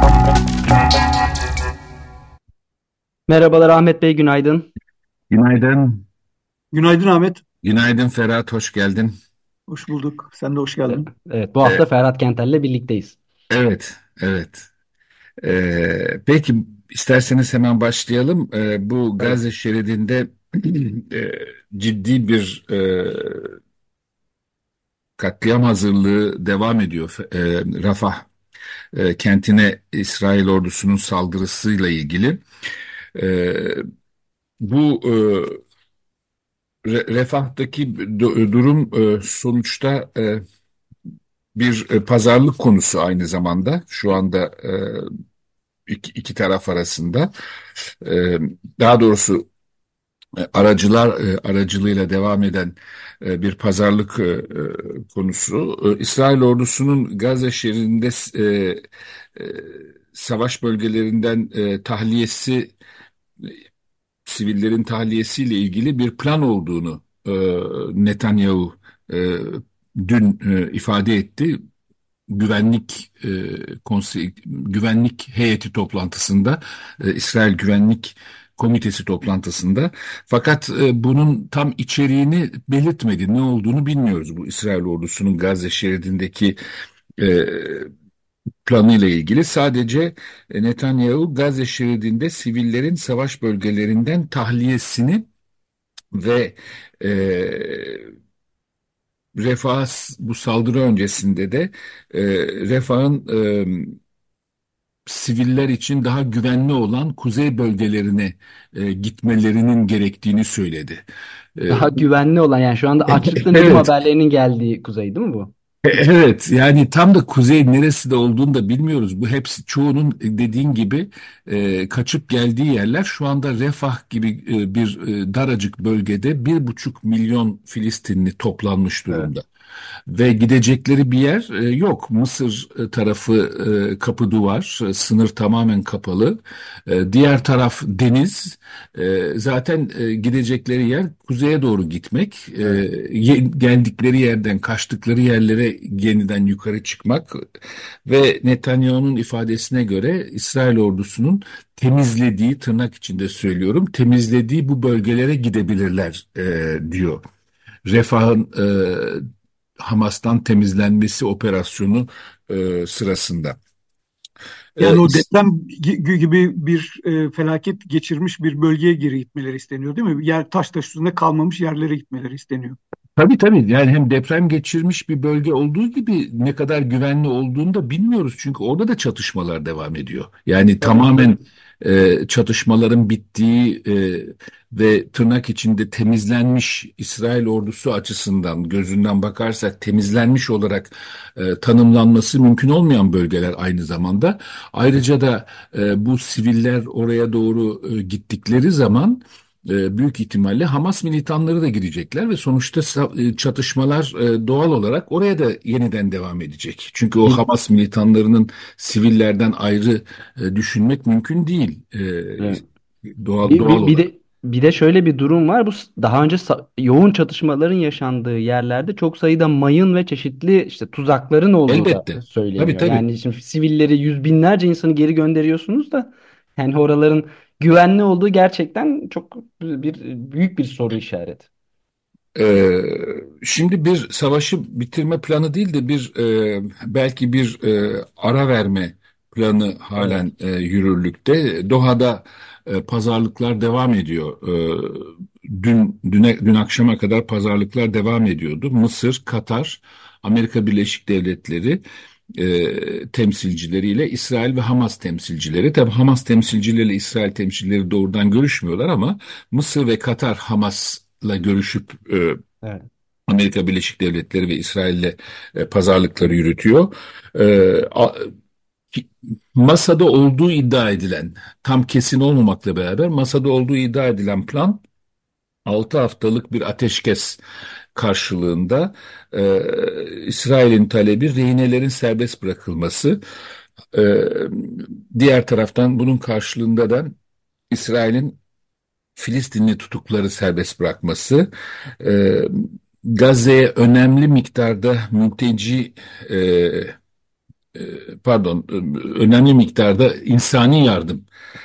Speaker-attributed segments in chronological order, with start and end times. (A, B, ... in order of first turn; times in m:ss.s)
0:03.3-0:04.7 A
0:05.3-0:06.0 B
0:06.7-0:07.4 C
0:07.6-0:09.1 B
0:09.7-0:11.1 C
0:10.9-0:13.2 A
0:13.5-0:14.7 B
0:15.4-0:23.6 B
0:25.2-0:28.3 B
0:28.9-0:32.4 B
0:33.1-0:33.8 B
0:34.6-0:35.6 B
0:36.8-0:40.4 B
0:41.5-0:45.1 B
0:45.9-0:47.3 B
0:47.9-0:49.5 B
0:50.4-0:58.8 B
0:59.3-1:02.7 B
1:04.2-1:11.6 B
1:12.3-1:26.6 B
1:27.2-1:27.9 B
1:28.6-1:35.3 B
1:36.1-1:38.1 B
1:39.3-1:44.0 B
1:45.0-1:51.0 B
1:51.6-1:52.0 B
1:51.7-1:55.5 A
1:53.1-1:53.9 B
1:55.8-2:09.4 B
2:10.1-2:27.5 B
2:28.0-2:37.2 B
2:37.8-2:39.2 B
2:39.8-2:43.6 B
2:44.8-2:45.2 B
2:44.8-2:52.8 C
2:53.2-3:32.6 B
3:33.2-3:34.1 B
3:33.4-3:51.5 A
3:41.7-3:43.0 B
3:52.3-4:11.8 B
4:12.3-4:22.4 B
4:23.3-4:28.3 B
4:28.9-4:34.8 B
4:35.6-4:37.4 B
4:37.9-4:43.2 B
4:43.9-4:47.1 B
4:47.7-4:48.4 B
4:49.2-4:51.5 B
4:52.0-4:57.0 B
4:57.7-5:01.2 B